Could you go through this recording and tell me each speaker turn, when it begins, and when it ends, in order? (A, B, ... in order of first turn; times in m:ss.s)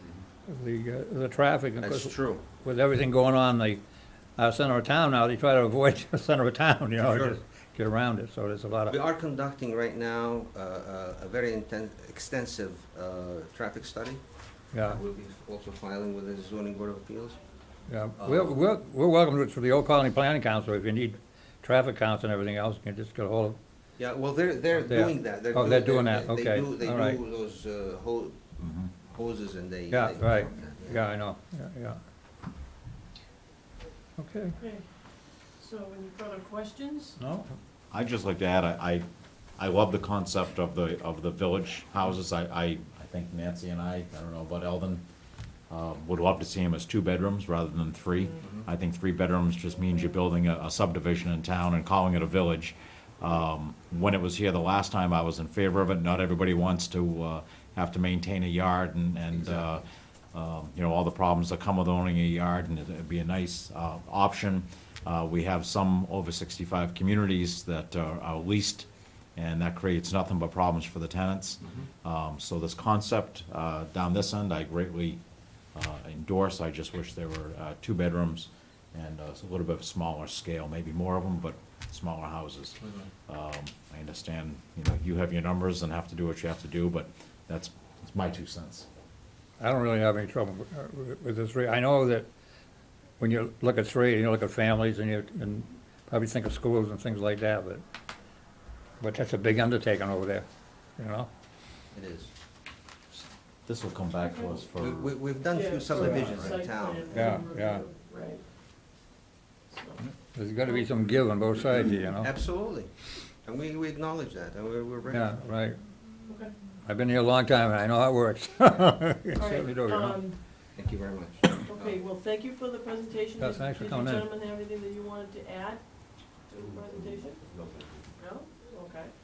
0:00.5-0:03.8 A
0:01.8-0:02.4 B
0:04.4-0:09.0 A
0:07.0-0:07.4 B
0:08.9-0:14.2 B
0:14.7-0:15.0 A
0:14.8-0:17.4 B
0:17.9-0:23.6 A
0:24.0-0:31.0 B
0:24.8-0:27.2 A
0:28.6-0:28.9 C
0:29.9-0:32.0 A
0:34.2-0:34.6 A
0:34.6-0:37.2 D
0:37.2-0:37.5 A
0:37.9-0:39.0 C
0:39.6-0:45.0 C
0:45.7-1:15.2 C
0:48.4-0:48.7 B
0:59.3-0:59.7 B
1:15.7-1:28.9 C
1:29.6-1:32.3 A
1:33.2-1:37.8 A
1:39.0-1:40.4 A
1:41.0-1:41.3 A
1:41.9-1:42.3 B
1:43.6-1:45.1 C
1:44.2-1:44.5 D
1:44.8-1:47.4 B
1:45.5-1:48.4 D
1:47.1-1:47.8 A
1:49.7-1:50.0 D
1:50.3-1:52.3 A
1:52.2-1:52.9 B
1:53.4-1:55.3 B
1:55.1-1:55.8 A
1:56.8-2:00.2 A
1:59.4-2:00.4 D
2:00.8-2:02.0 B
2:01.6-2:05.8 D
2:03.4-2:04.3 A
2:06.5-2:07.4 D
2:08.2-2:09.1 D